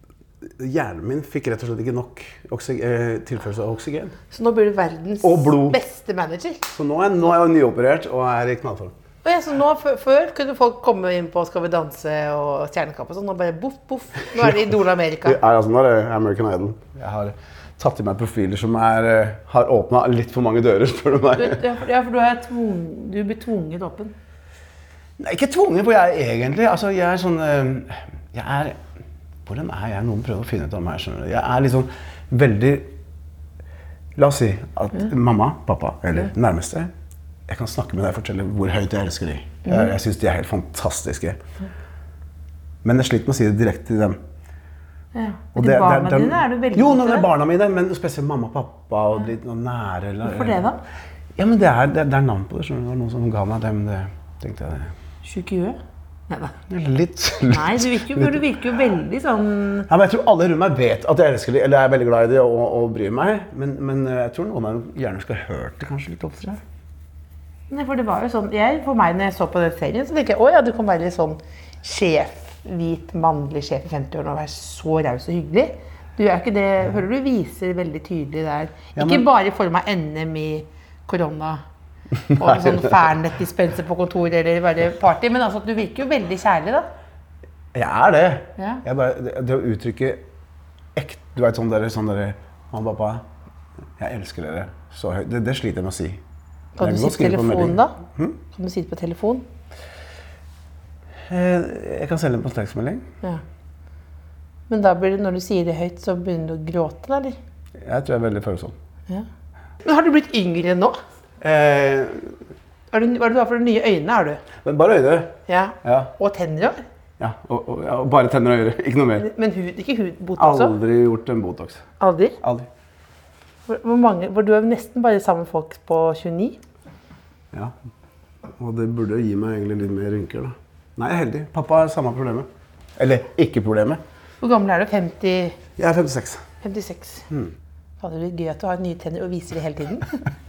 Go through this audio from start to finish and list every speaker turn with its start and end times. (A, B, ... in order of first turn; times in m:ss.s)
0:00.4-0:04.2 A
0:04.3-0:06.6 B
0:05.2-0:05.8 A
0:06.7-0:09.0 A
0:09.2-0:15.4 B
0:15.2-0:21.6 A
0:21.4-0:24.1 B
0:25.2-0:28.8 A
0:29.4-0:32.9 A
0:34.2-0:36.9 A
0:37.5-0:41.4 A
0:39.7-0:39.9 B
0:42.8-0:44.2 A
0:45.1-0:47.3 B
0:45.6-0:50.6 A
0:50.2-0:50.8 B
0:51.4-0:54.9 A
0:55.2-0:56.6 B
0:56.7-0:58.5 A
0:57.5-0:59.9 B
0:59.9-1:06.6 A
1:07.7-1:21.6 B
1:19.0-1:19.3 A
1:22.3-1:23.1 A
1:22.3-1:26.9 B
1:27.7-1:30.2 A
1:28.6-1:28.8 B
1:31.0-1:33.3 A
1:34.0-1:36.2 A
1:36.8-1:38.0 B
1:36.8-1:38.4 A
1:38.5-1:39.4 B
1:41.3-1:43.1 A
1:44.7-1:47.4 B
1:47.8-1:48.8 A
1:49.8-1:51.0 B
1:51.4-1:52.4 A
1:52.9-1:54.4 B
1:54.6-1:56.1 A
1:55.5-1:56.8 B
1:57.2-1:59.3 A
1:59.2-2:00.8 B
2:00.4-2:01.8 A
2:02.0-2:02.4 B
2:02.4-2:02.7 A
2:03.7-2:06.6 B
2:08.6-2:14.0 A
2:14.4-2:15.6 B
2:15.8-2:16.5 A
2:16.6-2:17.3 B
2:17.3-2:17.6 A
2:18.0-2:20.2 B